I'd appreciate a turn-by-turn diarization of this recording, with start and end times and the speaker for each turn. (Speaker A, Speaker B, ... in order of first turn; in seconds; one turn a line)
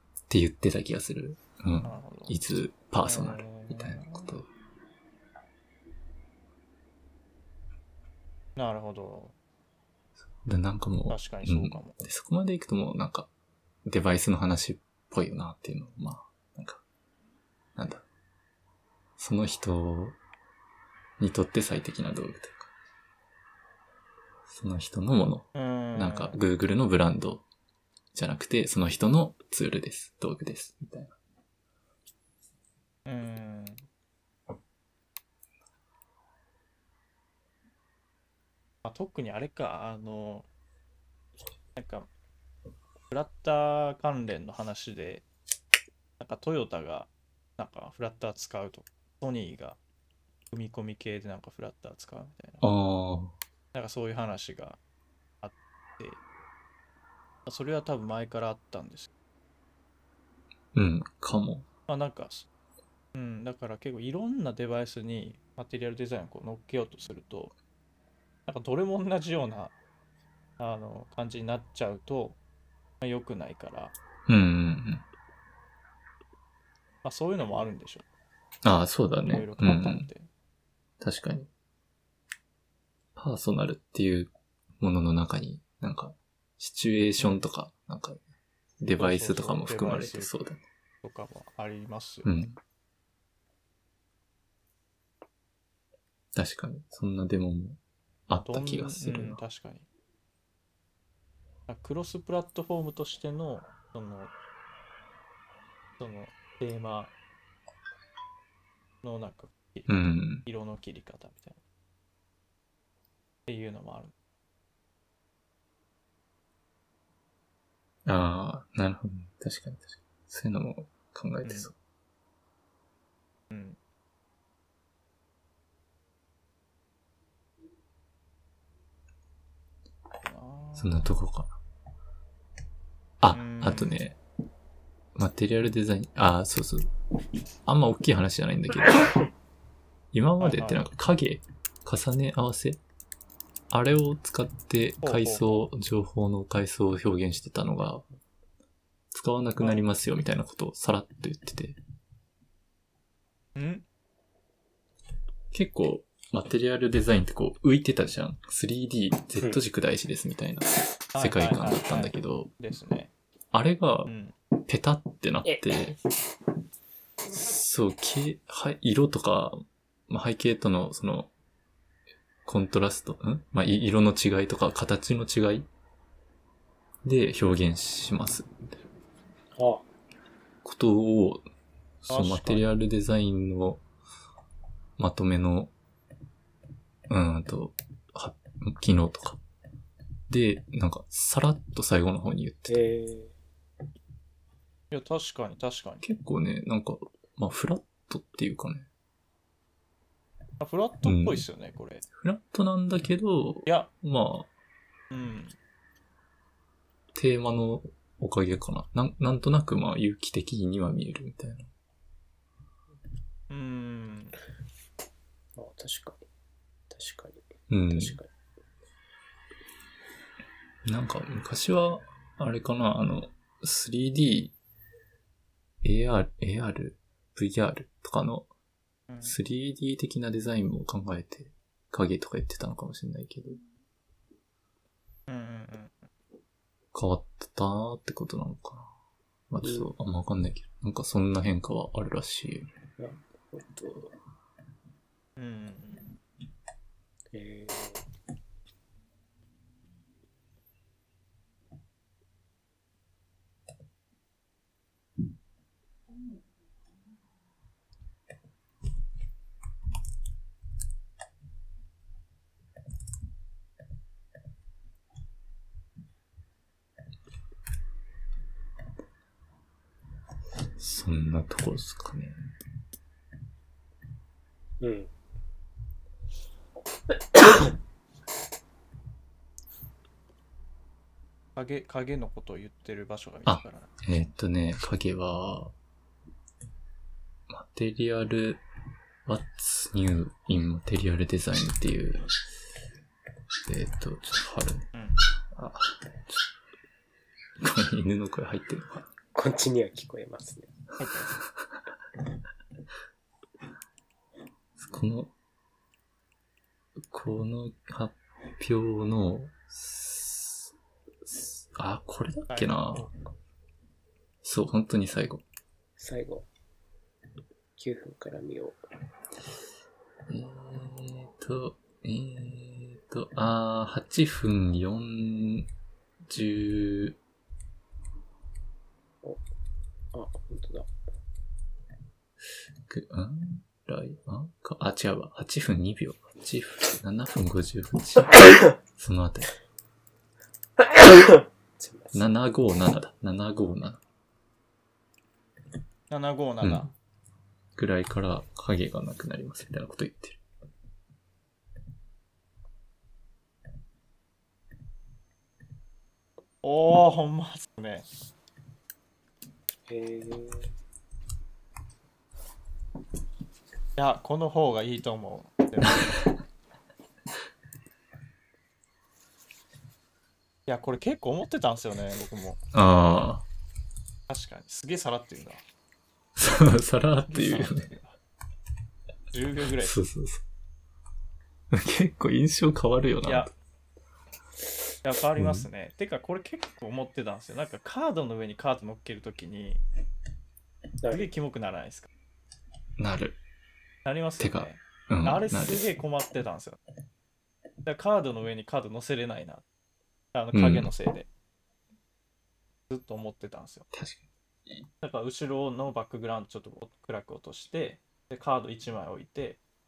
Speaker A: 0.3-4.5
Speaker B: 1.8-2.4
Speaker B: 3.0-4.3
Speaker B: 8.6-9.3
Speaker A: 10.4-13.3
Speaker B: 11.1-12.0
Speaker A: 13.8-16.8
Speaker A: 17.8-18.0
Speaker A: 19.2-20.2
Speaker A: 21.2-22.7
Speaker A: 24.5-27.4
Speaker B: 25.5-26.4
Speaker A: 28.1-31.1
Speaker B: 33.0-33.9
Speaker B: 38.8-40.5
Speaker B: 41.8-42.1
Speaker B: 43.1-45.2
Speaker B: 46.2-49.8
Speaker B: 50.5-52.6
Speaker A: 52.6-53.3
Speaker B: 53.7-54.8
Speaker B: 55.4-56.2
Speaker B: 57.5-59.1
Speaker A: 60.7-61.6
Speaker B: 61.9-62.5
Speaker B: 63.1-67.5
Speaker B: 68.5-69.7
Speaker B: 70.6-72.4
Speaker B: 73.0-73.9
Speaker A: 74.3-75.0
Speaker B: 77.0-78.0
Speaker A: 78.6-80.1
Speaker B: 79.2-80.3
Speaker A: 81.0-81.5
Speaker A: 83.2-88.2
Speaker B: 87.2-87.4
Speaker A: 88.8-90.6
Speaker B: 89.0-90.3
Speaker B: 91.0-92.3
Speaker A: 92.2-92.6
Speaker A: 96.3-99.4
Speaker B: 98.4-99.9
Speaker B: 101.7-104.3
Speaker B: 106.0-107.1
Speaker B: 109.0-111.6
Speaker A: 109.9-110.5
Speaker B: 113.5-114.1
Speaker A: 118.0-121.7
Speaker B: 121.4-121.7
Speaker B: 123.5-123.8
Speaker B: 130.2-131.1
Speaker A: 130.8-131.6
Speaker A: 133.2-134.2
Speaker B: 133.3-134.0
Speaker A: 135.1-136.9
Speaker A: 137.7-139.3
Speaker A: 140.1-142.8
Speaker B: 140.4-140.8
Speaker A: 143.7-148.0
Speaker B: 145.0-145.7
Speaker A: 149.1-151.8
Speaker B: 149.6-149.8
Speaker B: 153.6-153.8
Speaker A: 155.5-162.5
Speaker B: 161.1-163.1
Speaker A: 163.5-164.1
Speaker B: 164.1-164.3
Speaker A: 164.7-166.0
Speaker A: 167.3-171.3
Speaker A: 172.4-175.7
Speaker A: 177.0-178.8
Speaker C: 179.5-179.8
Speaker A: 180.6-181.4
Speaker A: 182.0-183.8
Speaker B: 182.1-182.7
Speaker A: 185.0-185.7
Speaker A: 187.1-189.4
Speaker A: 190.3-192.9
Speaker C: 192.7-193.3
Speaker B: 194.9-196.0
Speaker A: 196.0-198.9
Speaker B: 200.6-202.0
Speaker A: 201.0-201.4
Speaker A: 202.2-204.5
Speaker B: 203.7-203.9
Speaker B: 205.1-205.6
Speaker A: 207.1-211.7
Speaker B: 213.5-214.4
Speaker C: 215.6-216.2
Speaker C: 216.9-218.3
Speaker A: 217.7-218.2
Speaker A: 220.8-224.5
Speaker A: 225.8-228.5
Speaker B: 229.1-229.3
Speaker A: 229.2-233.6
Speaker B: 235.3-236.1
Speaker A: 236.9-238.9
Speaker A: 239.5-242.7
Speaker C: 239.6-239.9
Speaker C: 243.0-244.1
Speaker B: 245.4-246.2
Speaker C: 247.3-248.0
Speaker A: 270.8-272.5
Speaker C: 274.8-275.1
Speaker B: 281.6-283.9
Speaker A: 283.5-285.7
Speaker A: 287.5-288.6
Speaker A: 289.2-292.4
Speaker A: 293.6-294.9
Speaker A: 295.5-296.4
Speaker A: 297.6-299.1
Speaker C: 299.3-300.7
Speaker B: 301.0-301.3
Speaker A: 304.8-305.3
Speaker A: 307.1-310.7
Speaker A: 311.2-313.1
Speaker B: 312.5-313.1
Speaker A: 314.4-315.4
Speaker C: 316.0-316.5
Speaker C: 317.8-318.8
Speaker A: 320.3-325.7
Speaker A: 326.3-327.2
Speaker C: 330.1-330.9
Speaker A: 332.9-339.5
Speaker C: 340.9-342.1
Speaker A: 342.1-344.0
Speaker B: 346.1-346.9
Speaker A: 346.6-346.9
Speaker A: 347.8-350.4
Speaker B: 356.6-358.1
Speaker C: 359.9-360.7
Speaker B: 363.9-366.2
Speaker B: 370.7-372.6
Speaker A: 372.7-373.4
Speaker B: 374.3-375.6
Speaker A: 376.4-377.9
Speaker B: 377.3-378.2
Speaker B: 379.3-380.0
Speaker A: 379.8-380.4
Speaker A: 381.7-383.5
Speaker B: 383.2-383.5
Speaker B: 385.0-389.8
Speaker A: 385.4-385.7
Speaker C: 391.0-391.3
Speaker B: 391.1-392.1
Speaker A: 393.0-393.4
Speaker B: 394.0-396.8
Speaker A: 394.4-395.9
Speaker B: 397.8-399.6
Speaker B: 400.3-401.3
Speaker A: 400.5-400.9
Speaker B: 402.9-403.9
Speaker A: 403.9-404.8
Speaker B: 405.0-409.6